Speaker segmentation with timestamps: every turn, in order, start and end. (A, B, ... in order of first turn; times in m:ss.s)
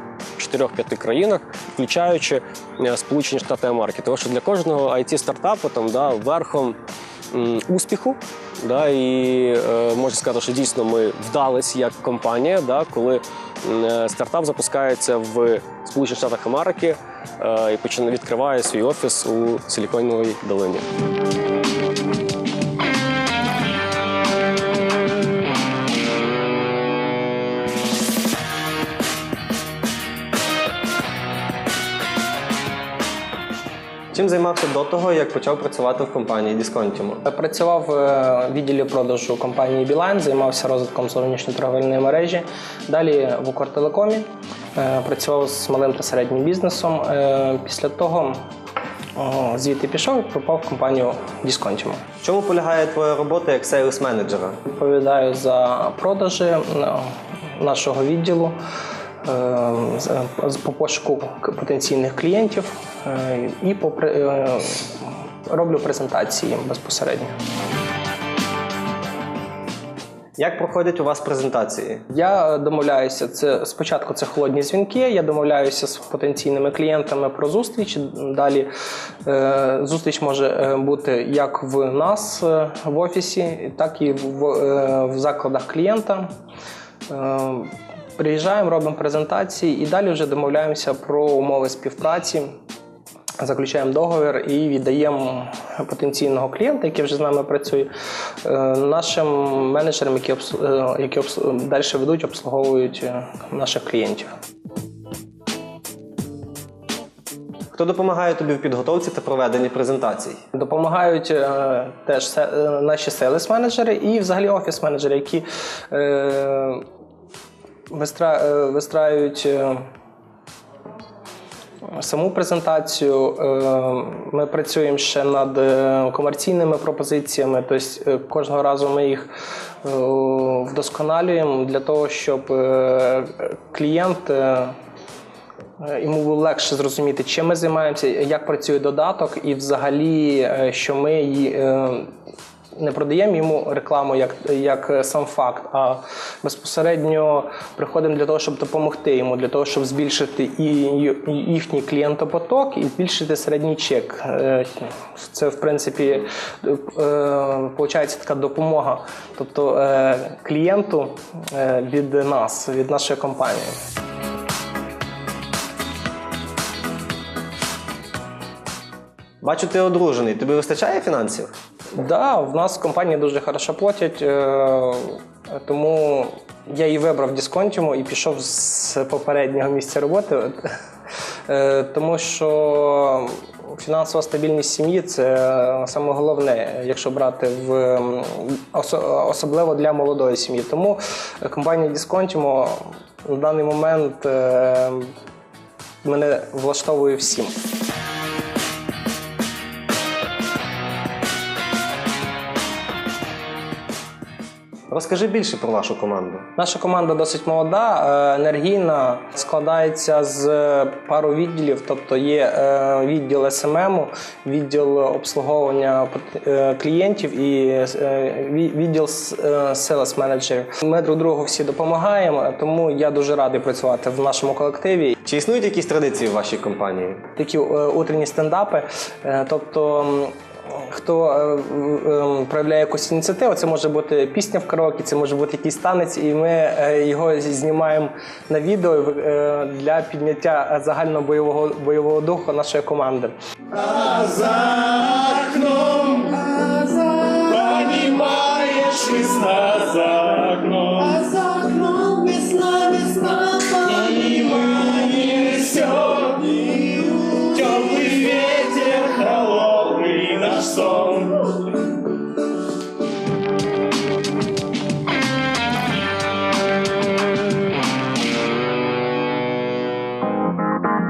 0:00.4-0:06.8 A
0:07.3-0:20.9 A
0:34.1-0:37.2 B
0:37.2-0:48.4 C
0:49.2-0:52.0 C
0:52.2-0:54.6 B
0:54.6-0:58.6 C
0:59.2-1:07.4 C
1:10.4-1:12.0 B
1:12.1-1:18.7 C
1:19.2-1:26.3 C
1:27.1-1:32.5 C
1:33.4-1:37.9 C
1:38.4-1:44.3 C
1:47.7-1:50.4 B
1:50.5-1:56.8 C
1:57.9-1:59.9 C
2:01.9-2:09.3 C
2:09.8-2:14.8 C
2:15.8-2:22.1 C
2:22.8-2:43.8 C
2:49.4-2:51.5 B
2:52.0-3:00.7 C
3:01.5-3:15.1 C
3:16.0-3:17.6 C
3:24.9-3:26.5 B
3:26.6-3:45.2 C
3:45.2-3:47.2 B
3:47.4-4:03.3 C
4:03.7-4:21.7 D